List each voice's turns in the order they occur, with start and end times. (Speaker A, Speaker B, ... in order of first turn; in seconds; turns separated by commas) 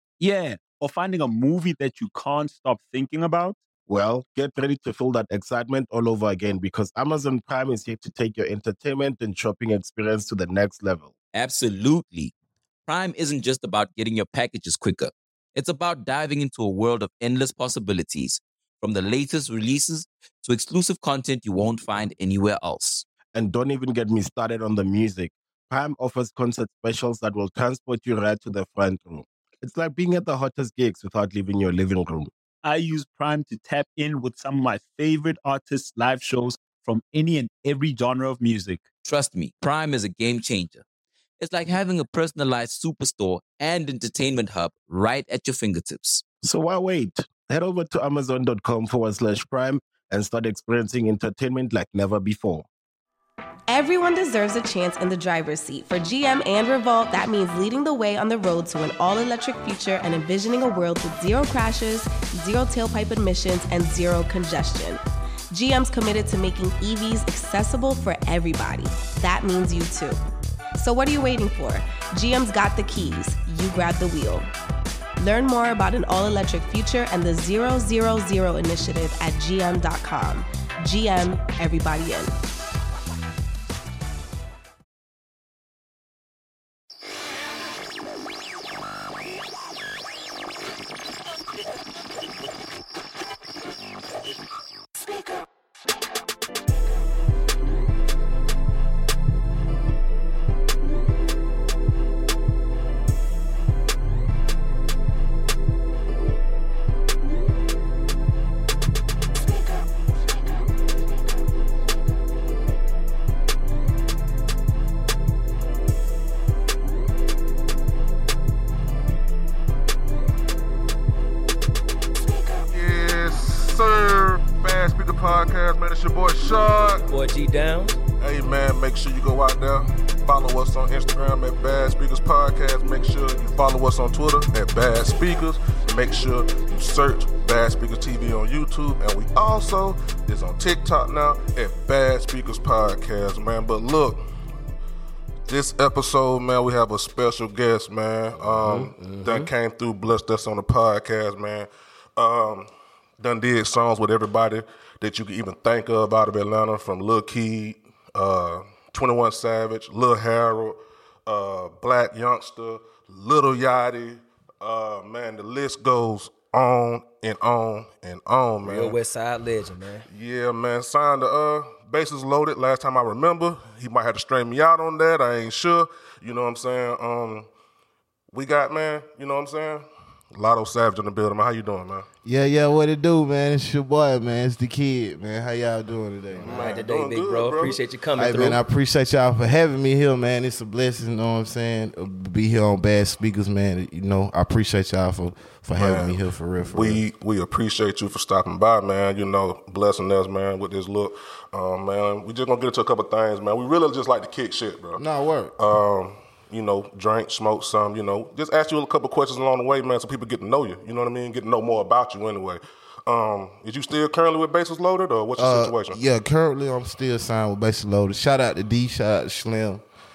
Speaker A: 0.2-3.6, Speaker B: 3.9-11.1, Speaker C: 11.3-12.3, Speaker C: 12.9-23.0, Speaker B: 23.3-32.3, Speaker A: 32.6-38.8, Speaker C: 39.0-40.8, Speaker C: 41.4-46.2, Speaker B: 46.4-52.7, Speaker D: 53.7-70.2, Speaker D: 70.8-74.5, Speaker D: 75.2-82.4, Speaker E: 122.5-127.0, Speaker F: 127.0-128.0, Speaker E: 128.2-144.2, Speaker E: 145.5-169.0, Speaker F: 148.3-149.5, Speaker F: 168.6-170.1, Speaker E: 170.1-177.5, Speaker E: 178.3-182.1, Speaker G: 182.2-186.8, Speaker E: 186.4-187.8, Speaker F: 186.5-188.6, Speaker G: 188.2-197.0, Speaker E: 195.7-196.2, Speaker E: 196.7-205.0, Speaker G: 205.0-205.5, Speaker E: 205.6-216.0, Speaker G: 215.4-219.8